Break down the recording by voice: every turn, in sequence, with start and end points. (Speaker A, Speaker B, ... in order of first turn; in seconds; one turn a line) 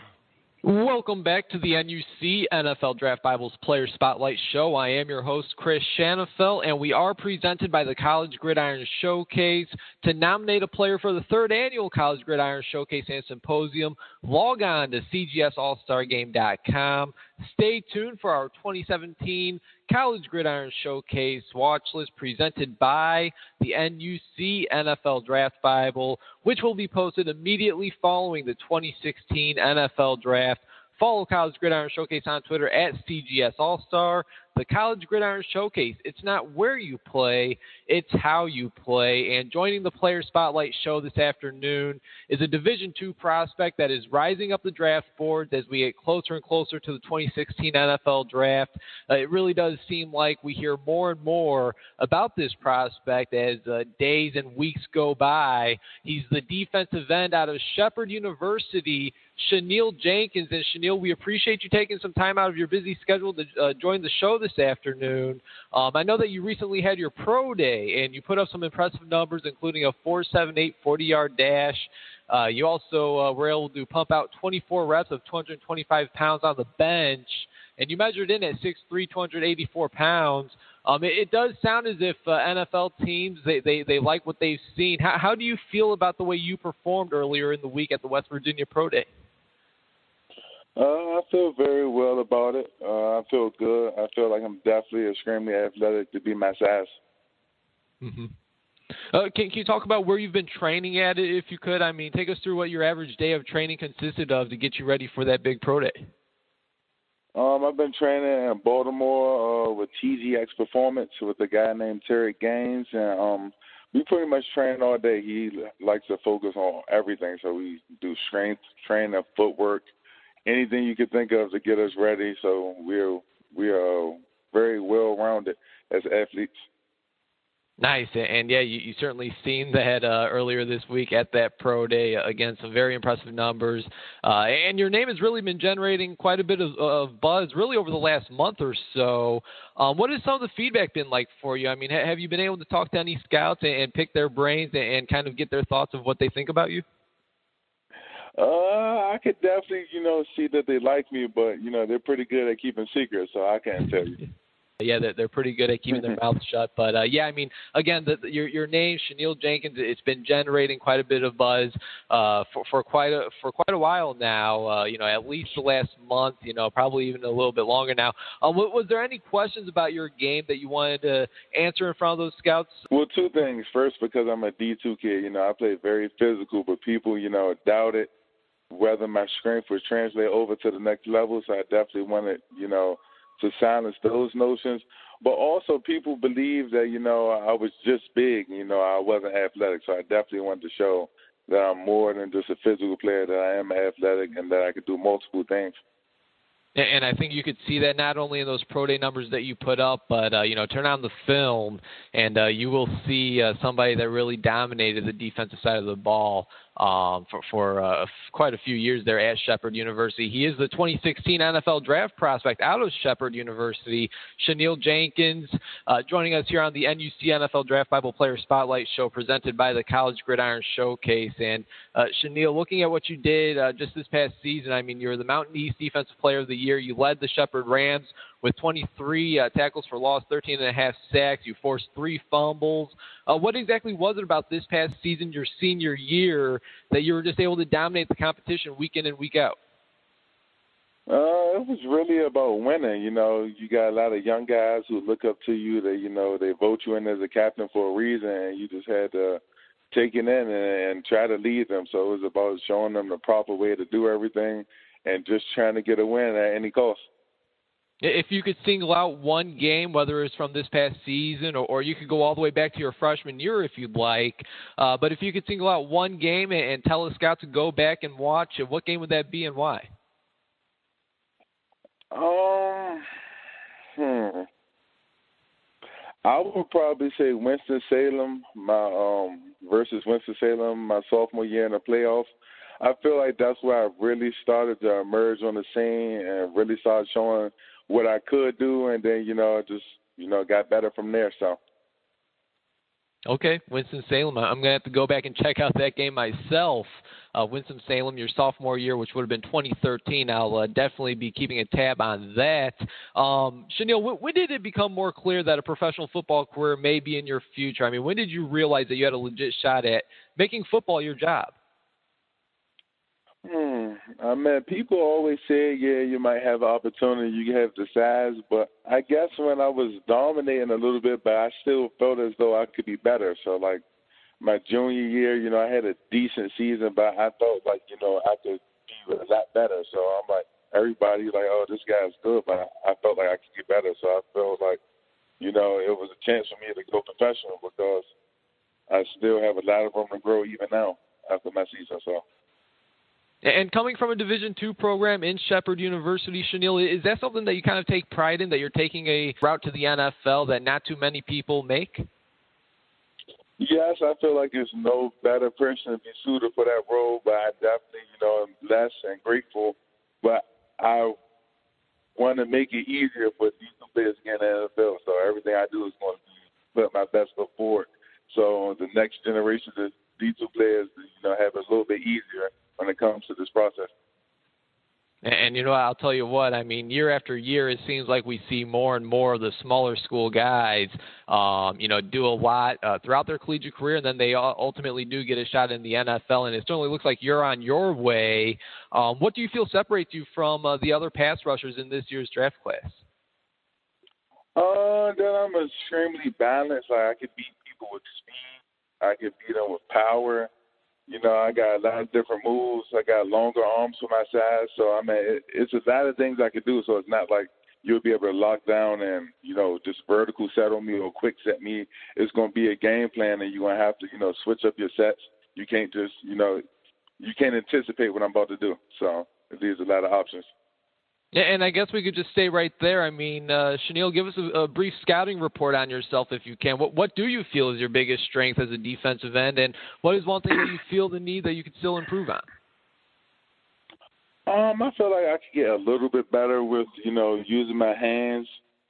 Speaker A: 0.6-89.1
Speaker B: 90.8-97.0
Speaker A: 98.0-98.3
Speaker A: 99.1-106.0
Speaker B: 107.3-119.9
Speaker B: 120.5-126.6
Speaker A: 127.8-146.8
Speaker B: 148.4-154.2
Speaker A: 154.8-172.8
Speaker B: 155.9-156.2
Speaker B: 172.9-178.1
Speaker B: 178.7-195.8
Speaker A: 196.8-239.6
Speaker B: 241.1-249.4
Speaker B: 249.9-257.1
Speaker A: 258.0-269.9
Speaker B: 272.1-273.1
Speaker B: 274.0-274.5
Speaker B: 276.2-291.6
Speaker A: 293.3-311.5
Speaker B: 313.4-323.8
Speaker B: 324.4-334.8
Speaker B: 335.4-338.1
Speaker B: 338.9-342.2
Speaker A: 343.4-352.1
Speaker B: 353.6-361.1
Speaker B: 362.2-373.9
Speaker A: 375.2-393.0
Speaker B: 394.6-400.5
Speaker B: 401.1-416.6
Speaker B: 417.2-420.5
Speaker A: 421.3-432.4
Speaker B: 434.5-438.6